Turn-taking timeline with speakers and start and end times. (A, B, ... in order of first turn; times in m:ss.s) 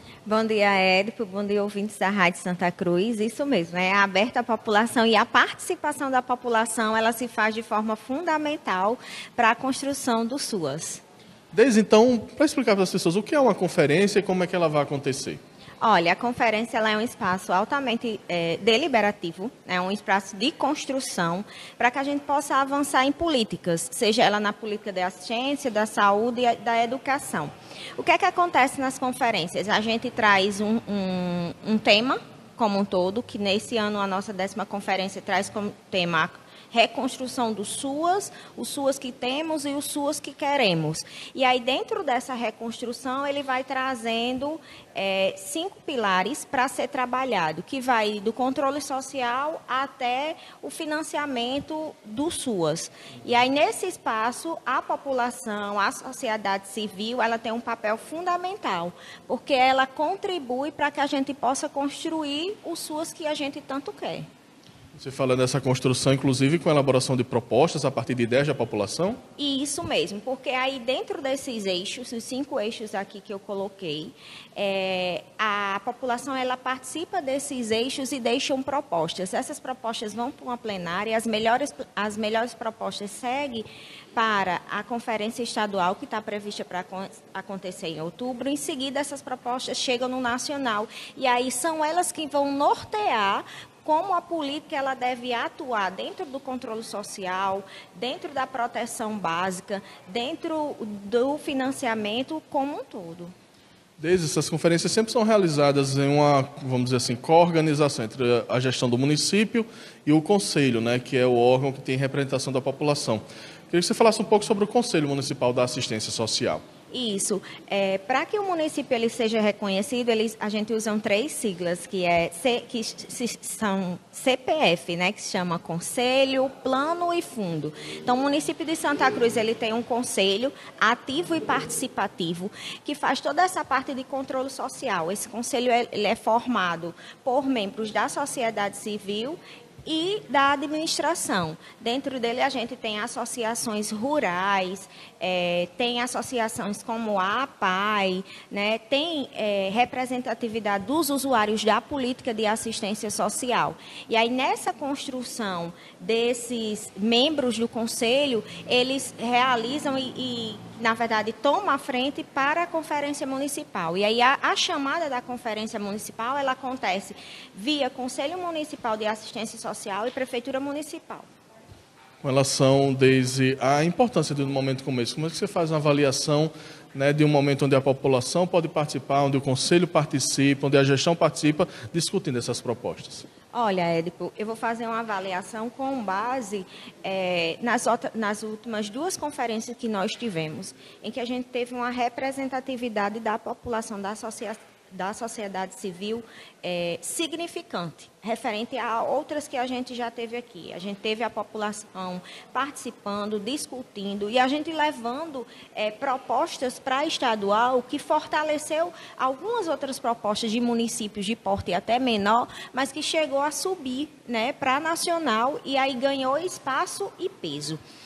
0:00.2-0:11.0 A
0:11.5-0:15.4 B
0:15.8-1:04.3 A
1:04.9-1:09.2 B
1:09.4-1:43.3 A
1:44.0-1:56.6 B
1:56.9-2:51.3 A
2:52.2-3:03.2 B
3:03.5-3:37.8 A